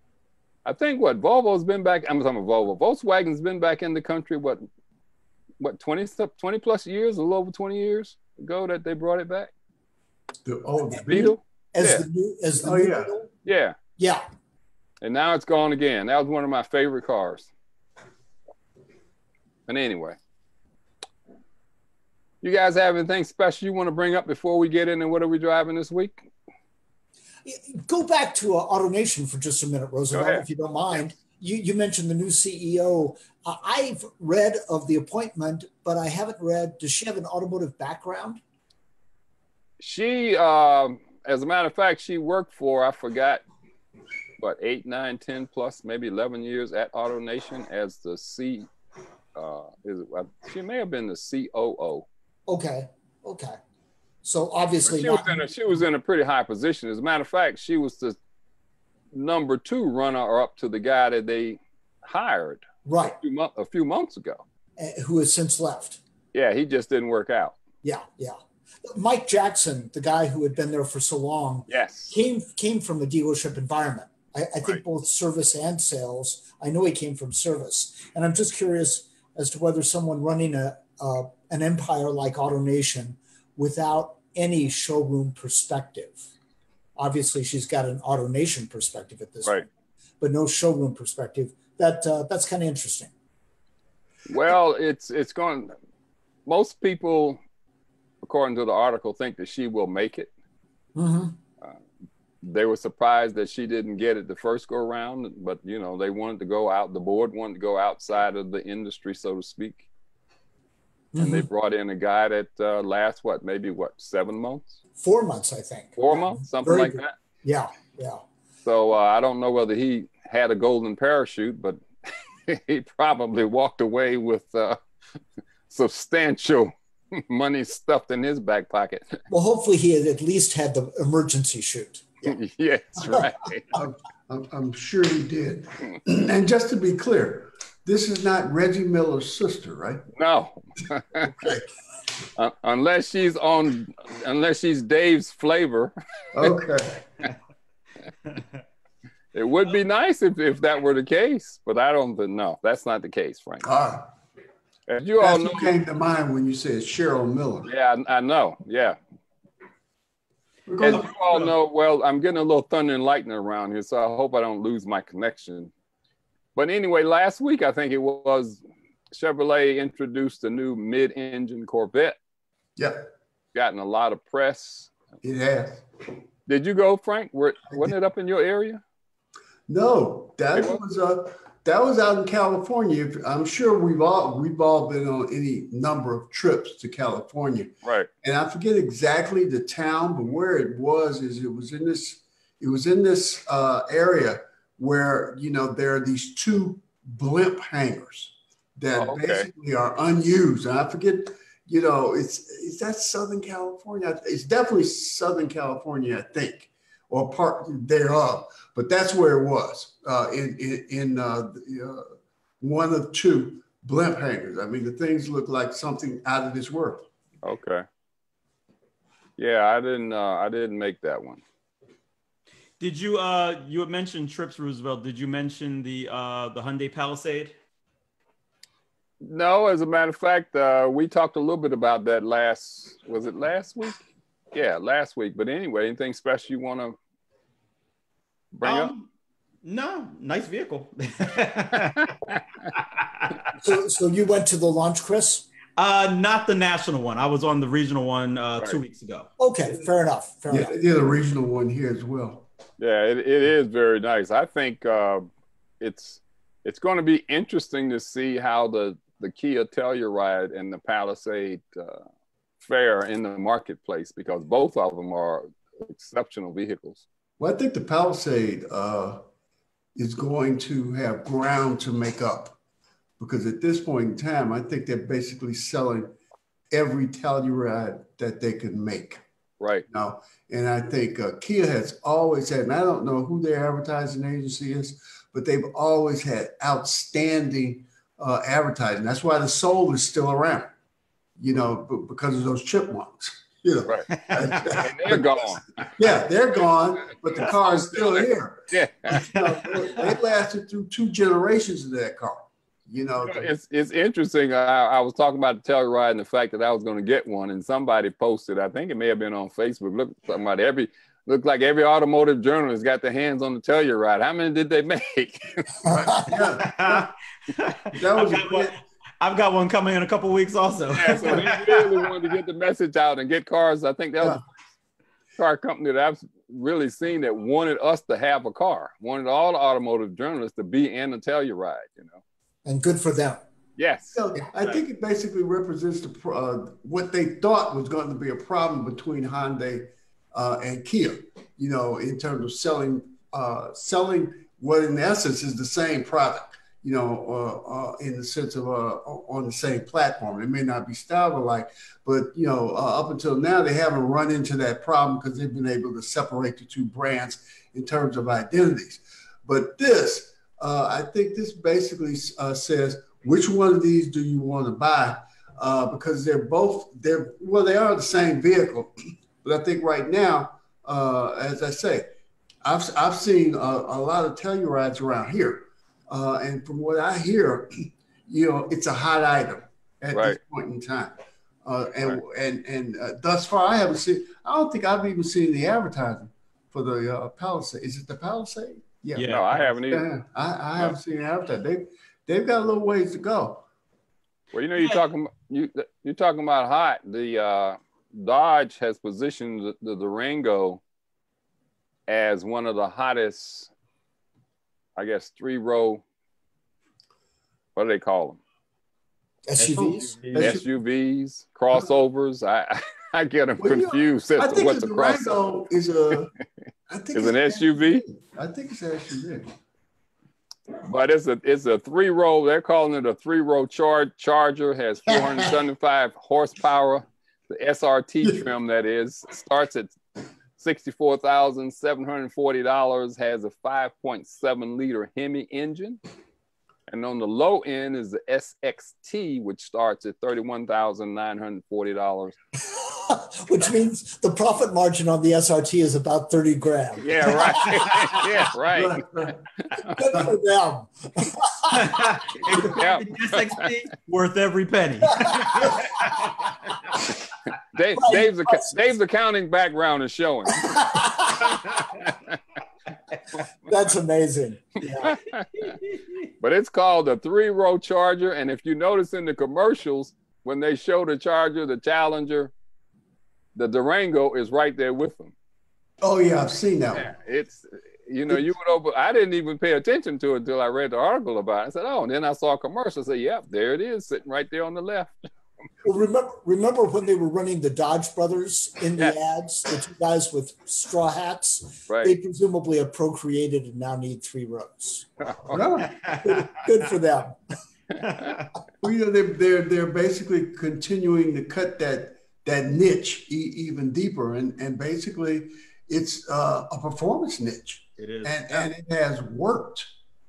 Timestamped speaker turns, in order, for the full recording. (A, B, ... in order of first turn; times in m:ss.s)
0:00.6-0:04.6 A
0:05.6-0:09.5 A
0:10.4-0:11.4 B
0:10.9-0:13.3 C
0:11.1-0:12.1 A
0:12.6-0:13.1 B
0:13.4-0:13.8 A
0:14.0-0:14.2 C
0:15.0-0:17.5 A
0:19.7-0:20.2 A
0:22.4-0:26.3 A
0:27.4-0:38.4 C
0:30.1-0:30.4 A
0:39.8-0:43.4 A
0:44.4-0:48.7 A
0:49.4-0:52.1 A
0:52.5-0:53.6 C
0:54.2-0:55.4 C
0:54.8-0:58.2 A
0:59.1-1:04.4 A
1:02.8-1:03.2 C
1:04.8-1:06.0 C
1:06.3-1:07.6 A
1:07.8-1:26.2 C
1:11.7-1:12.1 A
1:27.0-1:29.7 C
1:30.2-1:33.1 C
1:34.3-1:35.7 A
1:36.5-1:37.4 A
1:38.2-1:40.3 A
1:41.0-1:41.4 C
1:42.4-1:49.9 A
1:51.1-1:51.5 C
1:51.2-1:54.8 A
1:55.0-1:58.2 C
1:56.0-1:57.1 A
1:58.6-2:01.8 A
2:02.5-2:04.8 A
2:05.7-2:09.2 A
2:09.3-2:12.4 C
2:12.2-2:13.7 A
2:13.0-2:13.3 C
2:13.7-2:20.0 B
2:20.2-2:21.3 A
2:21.2-2:21.7 B
2:22.4-2:25.9 A
2:26.4-2:27.0 B
2:29.3-2:33.7 A
2:33.6-2:34.1 B
2:34.9-2:35.7 A
2:35.2-2:37.7 B
2:37.7-2:39.0 A
2:40.7-2:41.5 B
2:40.8-2:45.7 A
2:46.6-2:48.6 A
2:49.1-2:52.2 A
2:52.8-2:53.1 B
2:53.6-2:54.9 A
2:55.2-2:55.8 B
2:56.5-2:58.8 A
2:59.7-3:07.7 B
3:00.6-3:00.8 A
3:07.8-3:08.1 A
3:08.2-3:32.0 B
3:19.0-3:19.5 A
3:32.6-3:37.1 B
3:37.4-3:37.8 A
3:39.4-3:41.4 A
3:42.8-3:47.5 D
3:49.2-3:57.0 A
3:58.5-3:58.9 A
3:58.6-3:59.1 D
3:59.6-4:02.2 D
4:01.9-4:02.4 A
4:03.6-4:05.4 C
4:05.8-4:09.3 D
4:09.4-4:10.7 C
4:10.5-4:12.5 B
4:12.8-4:15.3 A
4:15.8-4:22.0 A
4:22.6-4:27.0 A
4:27.4-4:29.2 B
4:30.0-4:32.6 B
4:33.2-4:36.1 B
4:36.7-4:39.2 B
4:39.6-4:39.8 A
4:39.9-4:50.7 B
4:51.4-5:03.5 B
4:54.2-4:54.8 D
4:54.7-4:55.9 A
4:57.4-4:59.3 A
4:59.1-5:00.2 D
5:03.2-5:16.1 A
5:15.9-5:17.1 B
5:16.6-5:22.1 D
5:17.9-5:18.8 B
5:20.9-5:24.5 A
5:25.4-5:32.2 A
5:32.7-5:33.4 C
5:33.8-5:34.2 A
5:34.1-6:08.9 B
6:09.4-6:12.1 B
6:12.6-6:33.6 B
6:20.1-6:20.4 A
6:29.2-6:29.7 D
6:29.2-6:30.1 A
6:34.5-6:40.8 A
6:34.8-6:35.0 D
6:42.1-6:43.7 A
6:45.0-6:46.0 A
6:47.8-6:48.4 A
6:49.5-6:50.1 C
6:49.6-6:50.6 D
6:50.3-6:50.6 B
6:50.4-6:55.4 A
6:53.6-6:56.3 B
6:56.9-6:59.5 B
6:57.1-6:58.0 A
7:00.8-7:10.0 A
7:10.6-7:16.0 A
7:16.9-7:22.4 A
7:22.6-7:28.2 C
7:27.0-7:29.0 A
7:28.7-7:29.4 B
7:29.9-7:32.0 C
7:31.7-7:35.8 D
7:32.5-7:33.6 A
7:35.2-7:35.8 C
7:37.7-7:42.4 A
7:38.0-7:38.8 C
7:40.8-7:41.5 C
7:43.7-7:45.2 C
7:45.0-7:45.8 A
7:46.4-7:52.5 A
7:53.6-7:55.3 A
7:56.0-7:57.1 B
7:56.9-8:05.2 A
8:05.8-8:15.1 C
8:11.9-8:12.2 A
8:15.3-8:15.6 A
8:15.5-8:16.0 B
8:15.9-8:16.5 D
8:16.0-8:17.4 C
8:18.0-8:18.5 D
8:18.8-8:29.9 B
8:28.0-8:28.7 D